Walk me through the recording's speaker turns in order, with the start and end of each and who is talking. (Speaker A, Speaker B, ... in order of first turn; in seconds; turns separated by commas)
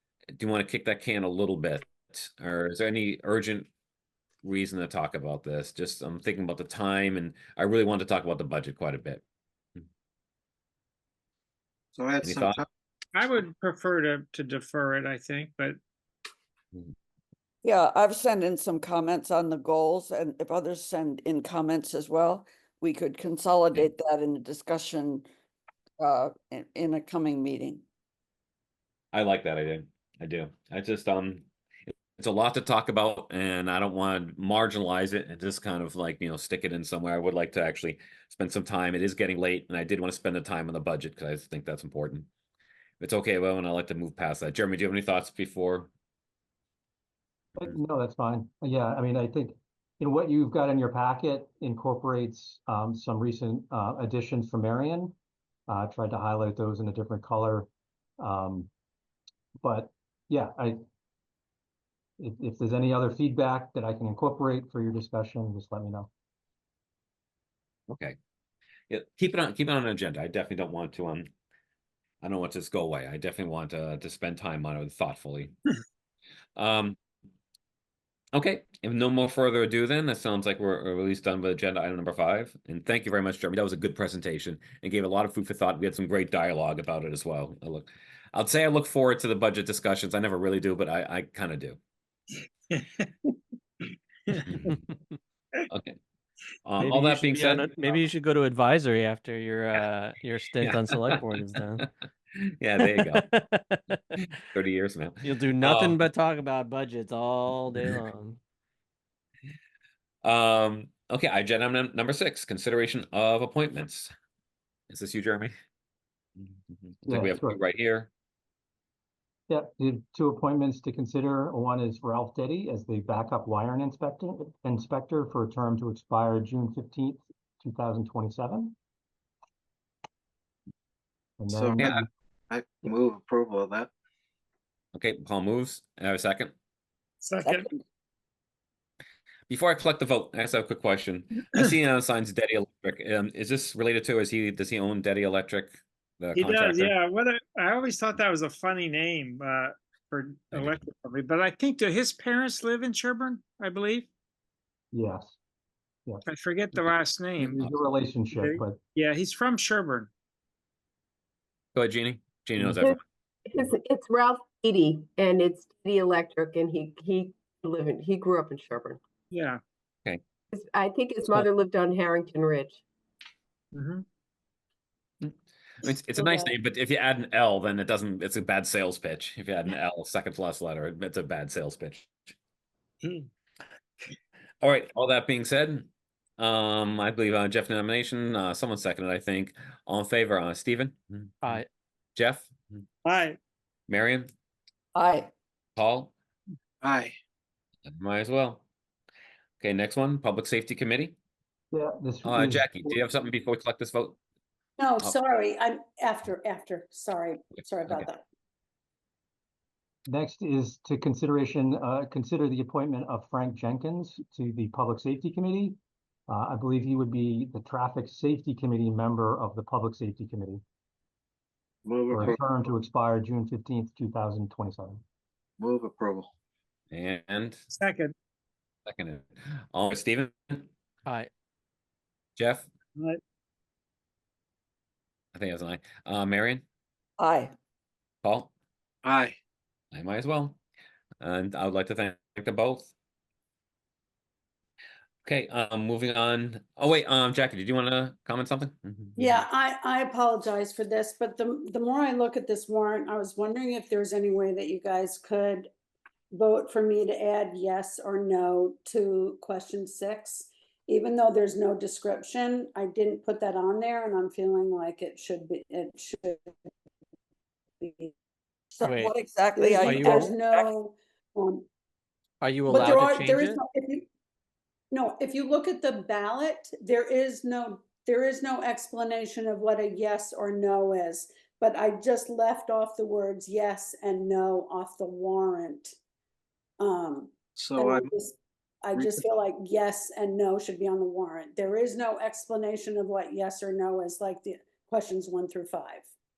Speaker A: 0.4-3.7, Speaker A: 4.4-9.2, Speaker B: 11.9-12.7, Speaker A: 12.2-12.6, Speaker C: 13.1-15.8, Speaker D: 17.6-25.3, Speaker D: 26.0-27.8, Speaker A: 29.1-42.3, Speaker A: 43.0-45.9, Speaker E: 47.5-55.1, Speaker E: 55.7-57.7, Speaker E: 58.2-58.7, Speaker E: 59.6-60.8, Speaker E: 62.2-66.1, Speaker A: 67.9-68.2, Speaker A: 68.9-71.3, Speaker A: 72.2-75.5, Speaker A: 76.5-77.0, Speaker A: 78.3-91.8, Speaker C: 92.7-93.3, Speaker A: 94.4-94.8, Speaker A: 95.7-96.0, Speaker A: 96.6-98.0, Speaker F: 96.8-101.9, Speaker A: 102.6-103.2, Speaker F: 102.8-104.4, Speaker A: 104.5-106.0, Speaker F: 105.2-108.4, Speaker A: 110.2-114.1, Speaker A: 114.9-115.5, Speaker A: 116.4-118.1, Speaker E: 117.0-117.6, Speaker E: 119.5-128.7, Speaker E: 131.4-132.0, Speaker B: 131.5-133.9, Speaker A: 134.9-136.5, Speaker C: 137.2-137.7, Speaker A: 139.5-146.9, Speaker C: 146.3-154.1, Speaker A: 150.5-150.8, Speaker E: 154.9-155.3, Speaker C: 156.3-157.7, Speaker E: 157.4-158.8, Speaker C: 158.3-160.1, Speaker A: 161.7-163.0, Speaker G: 162.7-169.0, Speaker C: 169.3-169.6, Speaker G: 170.5-172.8, Speaker C: 173.7-174.0, Speaker A: 175.2-182.1, Speaker G: 176.2-176.4, Speaker A: 184.6-191.6, Speaker F: 191.4-191.7, Speaker A: 192.2-192.8, Speaker C: 193.0-193.4, Speaker A: 193.9-194.3, Speaker D: 194.9-195.3, Speaker A: 195.8-196.1, Speaker B: 196.8-197.2, Speaker A: 197.9-198.6, Speaker A: 199.6-201.2, Speaker E: 201.7-203.0, Speaker A: 202.2-204.2, Speaker H: 204.8-208.2, Speaker E: 210.1-215.8, Speaker E: 216.3-220.6, Speaker B: 221.8-222.7, Speaker E: 222.1-225.0, Speaker B: 225.6-226.3, Speaker A: 226.9-227.6, Speaker C: 227.7-228.1, Speaker A: 228.8-230.7, Speaker F: 231.1-231.3, Speaker A: 232.4-232.7, Speaker A: 235.3-236.6, Speaker D: 237.2-237.5, Speaker A: 238.2-238.5, Speaker B: 239.0-239.3, Speaker A: 239.9-240.6, Speaker A: 241.2-242.9, Speaker A: 245.2-249.4, Speaker H: 249.2-255.7, Speaker H: 256.3-266.5, Speaker H: 267.8-268.1, Speaker D: 268.7-270.7, Speaker F: 268.8-269.1, Speaker H: 269.5-271.6, Speaker F: 269.8-270.3, Speaker F: 272.4-273.6, Speaker H: 272.6-274.1, Speaker H: 274.9-285.9, Speaker H: 286.8-296.1, Speaker B: 287.6-288.1, Speaker B: 288.9-289.2